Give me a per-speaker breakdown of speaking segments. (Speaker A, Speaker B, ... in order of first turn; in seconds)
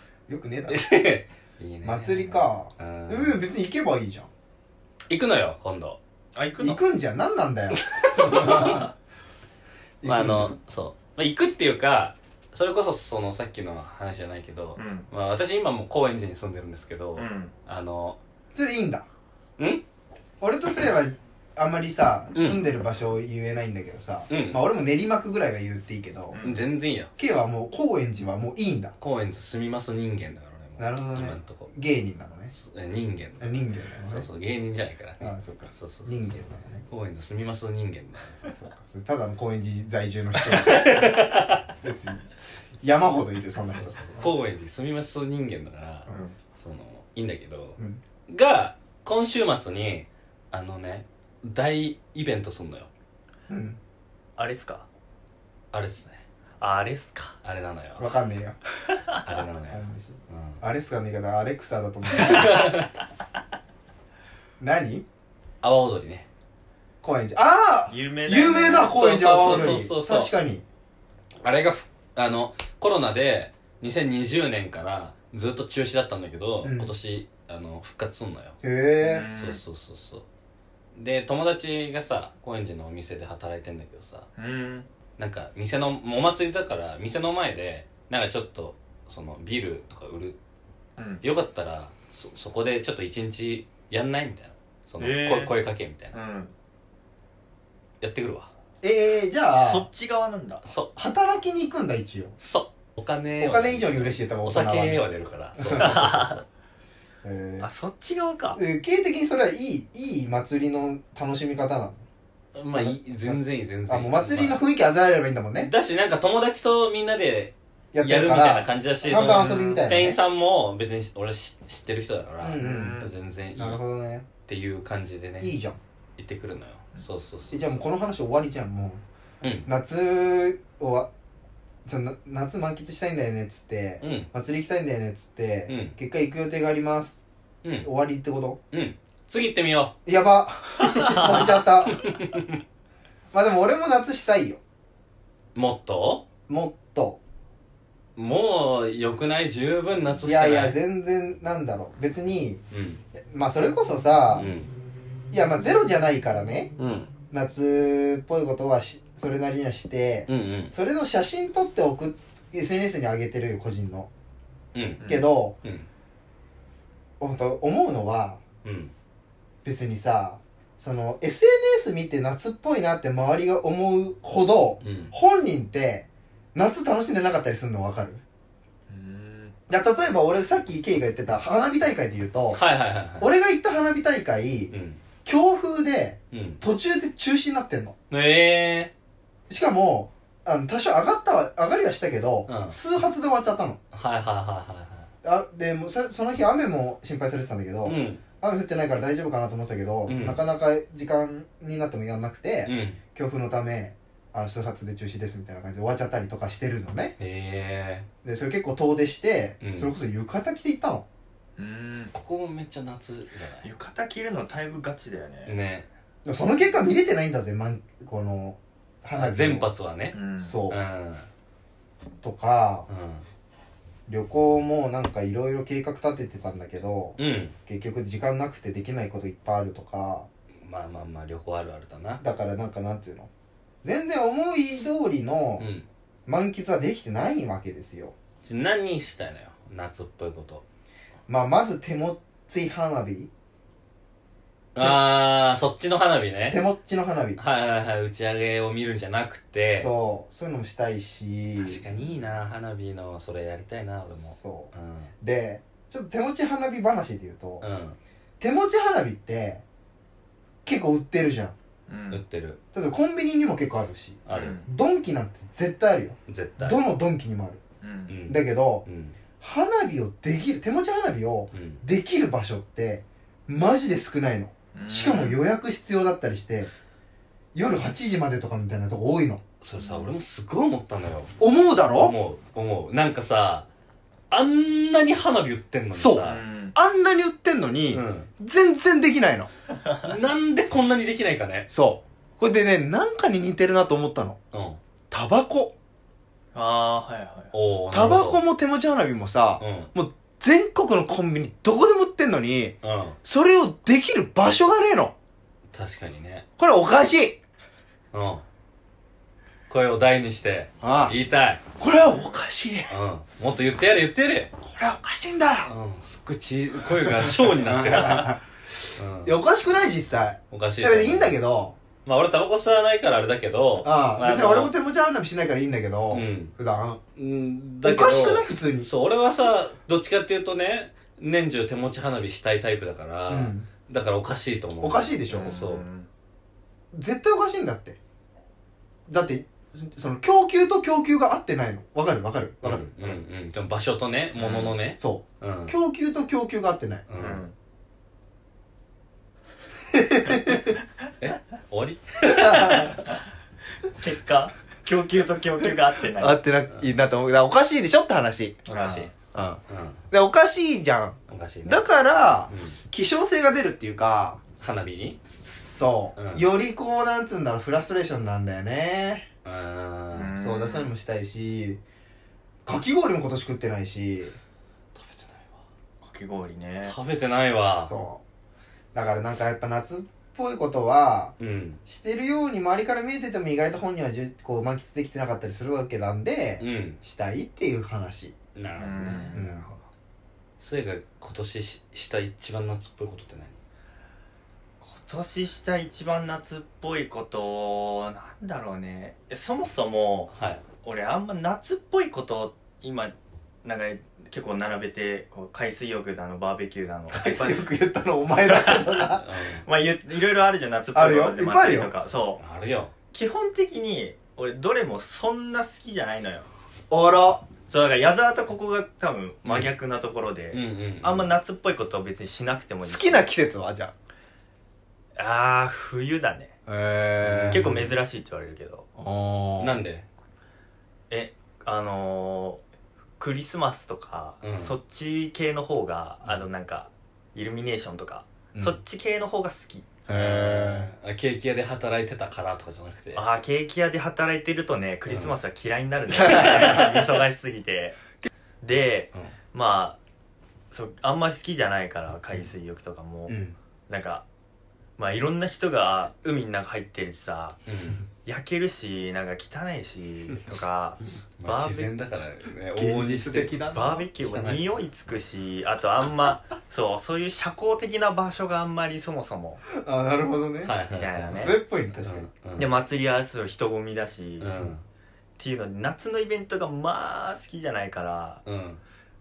Speaker A: 0.3-0.9, 1.8-4.3, 6.6-8.9, 10.0-10.6, 18.5-19.1, 20.4-26.4, 27.2-28.9, 30.8-32.5, 33.4-34.3, 35.2-36.9, 38.5-41.1, 41.8-42.3, 42.8-44.2, 53.5-53.8, 58.0-58.6, 59.7-62.7, 64.6-65.0, 67.0-70.6, 76.6-76.9, 78.6-79.3, 98.8-99.9, 101.0-102.3, 103.4-105.0, 105.6-106.1, 107.2-107.7, 108.5-112.0, 112.7-115.7, 117.9-120.2, 122.4-123.0, 123.6-124.3, 125.4-125.8, 127.5-129.0, 129.7-131.1, 131.8-137.2, 137.8-138.6, 140.1-142.0, 143.3-144.6, 146.5-147.2, 150.2-152.6, 153.2-154.5, 155.3-156.7, 157.3-164.1, 165.1-165.6, 167.2-168.4, 169.7-178.2, 179.7-182.6, 183.2-184.7, 185.2-188.0, 189.5-193.8, 195.2-207.2, 208.2-211.1, 216.2-219.7, 220.4-220.8, 222.2-222.9, 224.1-230.3, 232.2-233.3, 233.8-235.7, 236.3-238.1, 241.3-243.3, 246.5-247.4, 249.7-251.8, 254.1-257.6, 258.4-259.6, 260.6-261.6, 262.7-267.6, 268.3-268.9, 269.4-276.7, 277.5-279.4, 281.4-282.1, 285.9-289.5, 291.7-294.4, 295.1-295.7, 297.9-305.1, 306.6-307.4, 310.8-311.2, 311.8-312.9, 314.6-315.7, 317.0-318.4, 319.2-321.8, 323.8-327.0, 327.8-328.9, 333.3-333.7, 334.8-335.6, 336.9-338.0, 339.1-343.2, 345.0-347.1, 349.9-350.8, 352.2-353.0, 356.2-358.7, 359.3-364.4, 365.2-369.3, 370.4-371.8, 372.6-374.4, 377.9-378.2, 378.9-381.4, 381.9-388.4, 389.3-389.7, 407.1-409.2, 410.9-411.9, 416.9-417.5, 422.8-423.9, 426.7-427.7, 429.0-429.8, 440.1-440.9, 446.2-447.1, 453.3-453.6, 462.8-464.0, 469.7-470.8, 471.3-472.3
Speaker B: 0.7-3.4, 5.1-6.0, 7.8-8.9, 10.0-18.2, 19.6-19.8, 22.4-22.6, 24.3-24.6, 26.4-27.1, 29.0-31.7, 32.5-36.1, 36.9-38.5, 40.4-41.7, 43.8-52.9, 55.7-56.2, 57.4-58.1, 59.2-60.6, 62.1-62.9, 65.6-66.3, 68.9-70.3, 71.4-78.6, 79.4-80.2, 81.0-84.3, 85.2-90.4, 91.2-96.2, 98.0-98.5, 100.6-100.9, 102.4-106.4, 112.5-114.6, 115.6-123.8, 124.5-125.5, 126.2-127.8, 129.4-129.7, 134.0-134.3, 135.7-135.9, 138.7-139.9, 141.9-142.6, 145.6-146.2, 148.2-150.8, 152.7-153.0, 154.3-154.7, 156.8-157.1, 160.3-160.7, 164.7-165.1, 168.6-168.9, 174.8-175.1, 182.5-183.3, 184.7-185.0, 186.3-186.6, 188.1-188.9, 192.5-192.8, 193.9-195.1, 197.8-198.2, 200.1-200.4, 202.7-203.0, 207.2-208.1, 209.6-209.9, 212.1-213.7, 215.5-215.9, 219.2-220.2, 220.7-221.3, 222.9-223.2, 227.2-227.6, 230.6-232.2, 235.6-235.9, 238.4-240.6, 244.8-246.6, 247.4-249.9, 251.6-255.1, 257.6-258.0, 262.1-262.6, 264.3-264.6, 266.3-266.8, 268.1-269.2, 271.5-271.8, 279.6-281.4, 281.9-283.7, 284.3-286.4, 287.9-288.3, 290.0-291.7, 294.5-294.8, 297.5-298.4, 299.6-299.9, 302.8-303.2, 305.7-306.4, 308.1-308.4, 309.7-311.6, 312.9-314.5, 315.6-318.4, 319.0-319.4, 320.5-321.4, 322.1-324.7, 326.1-326.5, 327.2-335.8, 342.6-345.8, 347.1-347.4, 351.2-353.0, 358.7-359.1, 359.7-360.0, 361.3-361.9, 362.5-362.8, 364.6-365.2, 366.2-366.5, 369.4-370.3, 374.9-375.6, 376.9-377.9, 381.4-381.8, 386.6-387.0, 388.6-389.4, 390.6-393.6, 400.3-400.6, 409.2-409.6, 412.4-412.9, 420.5-421.3, 427.2-427.9, 429.6-430.1, 434.4-434.7, 440.1-443.2, 457.7-458.0, 461.4-463.6, 464.2-464.6, 470.6-472.7, 474.4-474.8, 478.4-478.8
Speaker C: 6.3-6.8, 14.8-15.1, 17.2-17.5, 26.3-26.6, 46.1-46.4, 54.4-54.9, 56.6-57.4, 67.9-69.8, 79.0-79.6, 84.4-84.9, 91.0-91.2, 95.0-95.5, 96.1-96.5, 99.6-100.7, 105.8-106.4, 107.6-108.6, 119.0-119.9, 122.6-123.1, 141.1-141.4, 165.0-165.2, 178.9-179.6, 211.6-212.1, 213.6-215.5, 220.1-220.6, 261.9-262.2, 264.3-264.7, 267.8-268.1, 274.8-275.4, 279.8-280.1, 286.3-286.8, 296.5-297.5, 335.3-336.1, 344.4-344.8, 347.1-347.5, 354.0-356.4, 358.7-359.1, 370.1-370.9, 376.0-377.0, 388.8-389.8, 394.8-407.7, 408.5-412.4, 413.1-416.5, 417.7-423.3, 425.2-426.5, 427.5-428.9, 431.1-432.6, 433.2-440.0, 443.1-448.0, 448.6-450.0, 450.7-453.4, 453.9-454.2, 455.0-457.6, 458.2-461.9, 463.7-469.6, 470.9-471.5, 472.6-474.6, 475.4-478.4